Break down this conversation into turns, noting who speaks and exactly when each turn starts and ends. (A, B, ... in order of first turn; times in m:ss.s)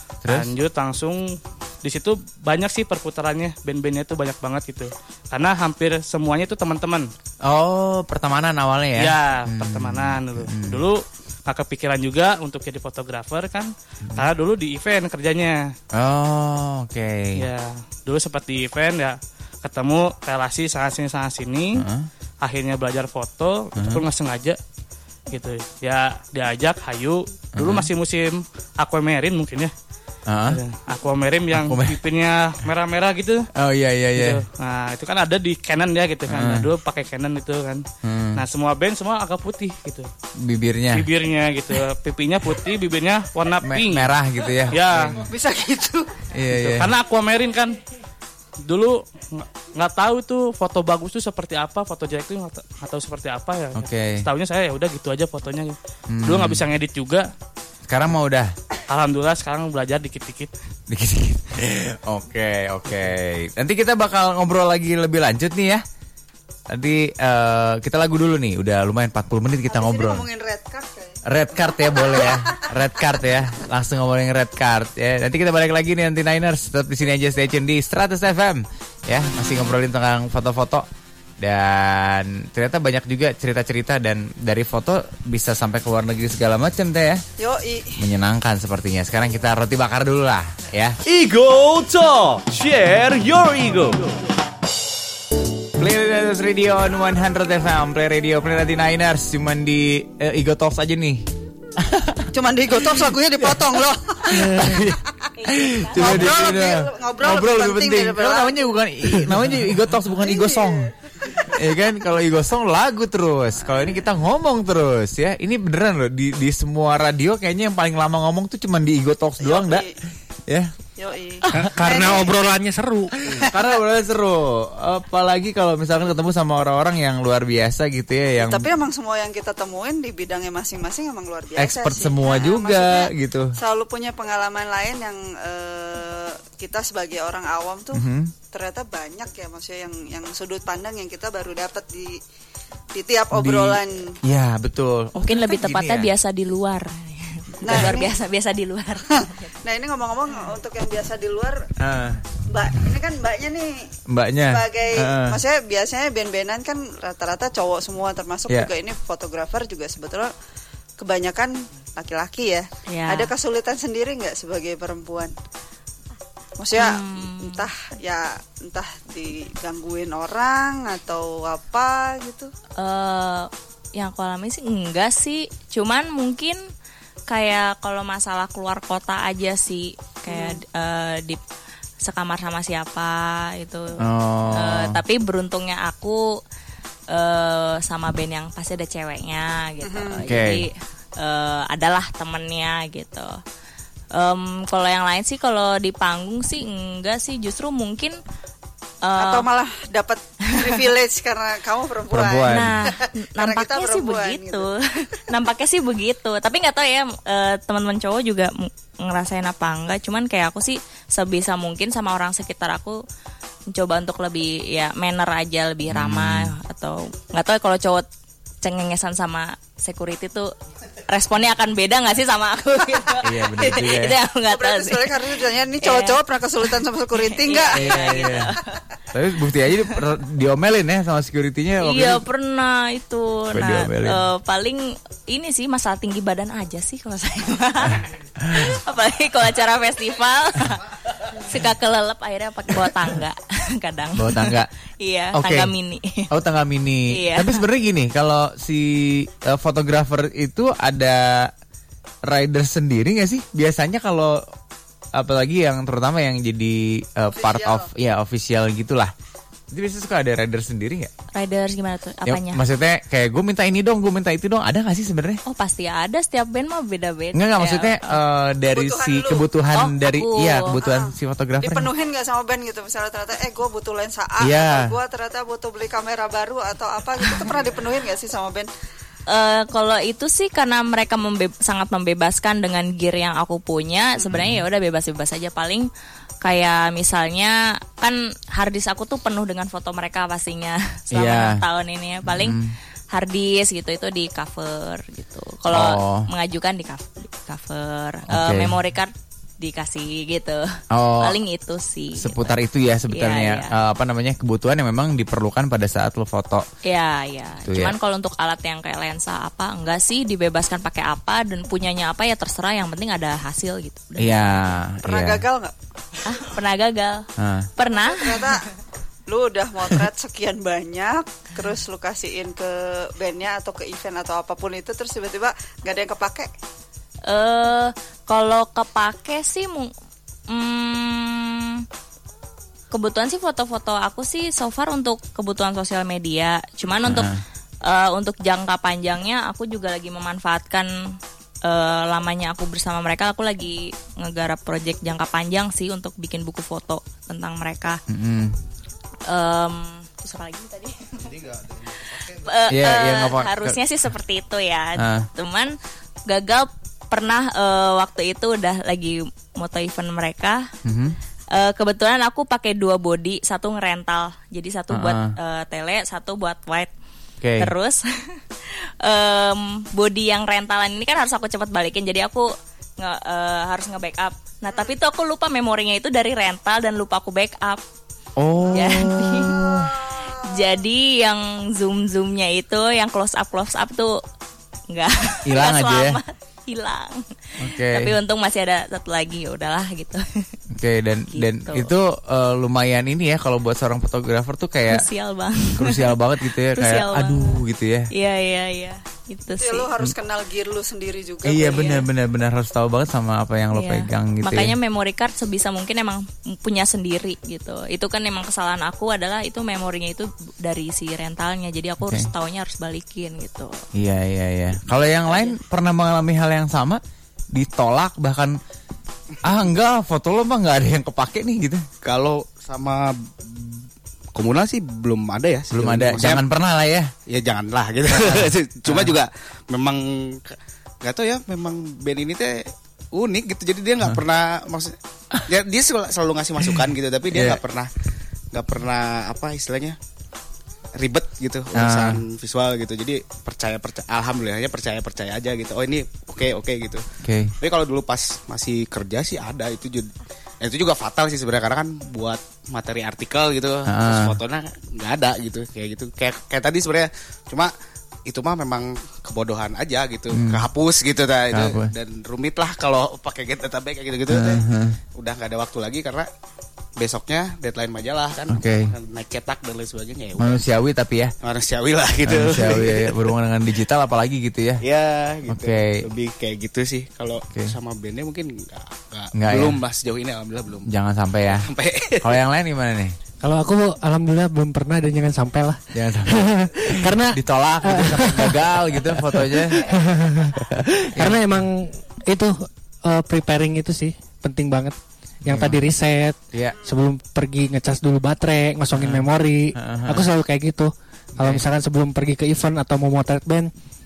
0:00.2-0:00.5 A
0:00.3-0:07.1 B
0:07.4-0:10.8 A
0:09.0-0:15.8 B
0:15.9-0:17.4 A
0:17.4-0:21.8 B
0:21.8-0:22.1 A
0:22.4-0:24.6 B
0:23.8-0:24.0 A
0:25.3-0:29.7 B
0:27.6-0:27.9 A
0:30.3-0:30.6 A
0:30.5-0:33.5 B
0:31.5-0:32.0 A
0:33.6-0:34.4 A
0:34.1-0:40.1 B
0:36.3-0:36.7 A
0:38.0-0:38.4 A
0:40.4-0:41.1 A
0:40.9-0:44.1 B
0:43.6-0:45.3 A
0:44.7-0:45.2 B
0:45.2-0:46.2 C
0:46.3-0:46.9 A
0:46.5-0:47.8 B
0:48.6-0:57.3 B
0:53.8-0:54.3 A
0:56.1-0:56.6 A
0:57.9-0:58.5 A
0:58.9-1:00.5 B
1:00.9-1:05.8 A
1:06.7-1:10.3 A
1:09.7-1:12.6 C
1:11.2-1:20.9 A
1:21.4-1:27.2 A
1:27.4-1:28.0 C
1:28.0-1:31.0 A
1:31.0-1:34.2 D
1:35.8-1:42.3 A
1:42.3-1:44.9 C
1:43.0-1:43.5 A
1:44.3-1:50.9 A
1:45.4-1:46.6 E
1:46.0-1:48.8 C
1:50.1-1:51.3 C
1:51.4-1:59.9 A
1:59.4-2:00.0 C
2:01.0-2:02.3 C
2:01.5-2:03.2 F
2:01.6-2:02.2 A
2:03.2-2:08.7 A
2:03.3-2:03.6 C
2:08.4-2:22.2 C
2:11.6-2:13.6 A
2:17.9-2:18.3 A
2:22.9-2:24.2 C
2:23.3-2:26.1 A
2:25.2-2:29.5 E
2:27.6-2:28.2 C
2:29.1-2:31.7 C
2:31.8-2:32.2 A
2:32.5-2:33.9 C
2:34.1-2:35.4 A
2:34.5-2:40.3 C
2:41.0-2:45.3 C
2:42.9-2:43.3 E
2:46.6-2:52.5 C
2:46.8-2:47.7 E
2:52.8-2:56.6 E
2:57.3-3:01.4 E
3:00.3-3:00.6 C
3:02.0-3:06.4 E
3:04.0-3:05.0 A
3:07.1-3:13.4 E
3:09.8-3:10.2 C
3:10.2-3:10.6 A
3:14.1-3:18.2 E
3:19.0-3:19.5 E
3:19.2-3:24.7 C
3:22.1-3:22.8 A
3:22.5-3:33.0 E
3:33.7-3:38.1 E
3:35.9-3:36.5 A
3:38.6-3:40.5 E
3:41.1-3:46.2 E
3:43.2-3:44.2 A
3:44.5-3:48.4 C
3:47.1-3:48.6 E
3:47.7-3:48.5 A
3:49.1-3:52.2 A
3:51.8-4:06.3 E
3:53.5-3:54.2 A
3:58.4-3:58.7 A
4:04.2-4:04.7 A
4:05.3-4:05.7 A
4:06.3-4:11.5 A
4:07.1-4:07.6 E
4:12.3-4:14.4 A
4:15.1-4:19.1 A
4:17.3-4:17.9 C
4:19.7-4:21.1 A
4:21.3-4:22.6 E
4:22.3-4:25.4 A
4:25.5-4:28.2 E
4:27.3-4:31.9 A
4:28.7-4:29.4 C
4:29.7-4:30.8 E
4:30.8-4:38.7 C
4:34.4-4:34.9 A
4:39.3-4:45.9 E
4:44.3-4:44.6 A
4:46.4-4:52.6 E
4:51.1-4:51.6 A
4:52.2-4:52.8 A
4:53.1-5:02.6 E
4:55.7-4:56.3 A
4:58.3-4:58.8 A
5:00.9-5:01.4 A
5:02.2-5:06.7 A
5:03.1-5:03.7 E
5:06.8-5:14.8 E
5:07.7-5:08.0 A
5:14.2-5:15.4 A
5:15.0-5:15.7 C
5:16.2-5:18.6 E
5:17.4-5:17.7 A
5:17.8-5:18.7 C
5:19.3-5:26.5 C
5:27.2-5:29.9 E
5:30.5-5:31.9 E
5:32.9-5:37.3 E
5:37.0-5:37.4 A
5:37.8-5:48.0 E
5:48.1-5:48.6 A
5:49.3-5:51.4 E
5:51.6-5:52.2 G
5:52.0-5:55.8 E
5:52.7-5:53.8 A
5:55.0-5:55.3 A
5:56.3-6:00.7 E
6:00.8-6:01.2 A
6:01.5-6:06.9 E
6:04.9-6:05.3 A
6:07.4-6:07.7 A
6:07.6-6:17.8 E
6:18.4-6:19.9 A
6:18.7-6:19.6 E
6:19.5-6:20.8 C
6:20.4-6:24.2 E
6:24.9-6:30.5 E
6:25.5-6:26.2 A
6:27.6-6:28.2 A
6:30.7-6:35.1 A
6:31.3-6:31.9 E
6:34.9-6:36.2 E
6:35.8-6:38.1 A
6:36.7-6:39.9 E
6:39.6-6:42.0 C
6:41.4-6:44.8 A
6:43.7-6:53.8 E
6:52.0-6:52.3 A
6:54.0-6:57.0 A
6:55.3-6:55.6 E
6:57.5-6:58.6 A
6:59.4-7:01.8 A
7:02.0-7:03.8 G
7:04.4-7:06.4 G
7:05.7-7:07.1 A
7:07.3-7:17.9 G
7:08.1-7:09.2 A
7:17.3-7:17.6 A
7:18.5-7:20.0 G
7:20.9-7:27.0 G
7:21.7-7:22.2 A
7:27.2-7:27.5 A
7:27.6-7:37.7 G
7:33.9-7:34.4 A
7:38.3-7:46.3 G
7:40.3-7:40.6 A
7:41.5-7:41.9 A
7:44.3-7:45.0 A
7:47.0-7:50.6 G
7:48.5-7:48.9 A
7:50.4-7:51.3 A
7:51.4-7:53.3 G
7:52.2-7:54.8 A
7:54.8-8:00.9 G
7:55.5-7:56.0 A
7:59.4-7:59.8 A
8:00.9-8:01.7 A
8:01.5-8:02.4 G
8:02.2-8:03.2 A
8:03.4-8:23.7 F
8:05.9-8:09.8 A
8:11.2-8:11.6 A
8:15.5-8:15.8 A
8:16.5-8:16.8 A
8:19.0-8:20.3 A
8:21.4-8:21.6 A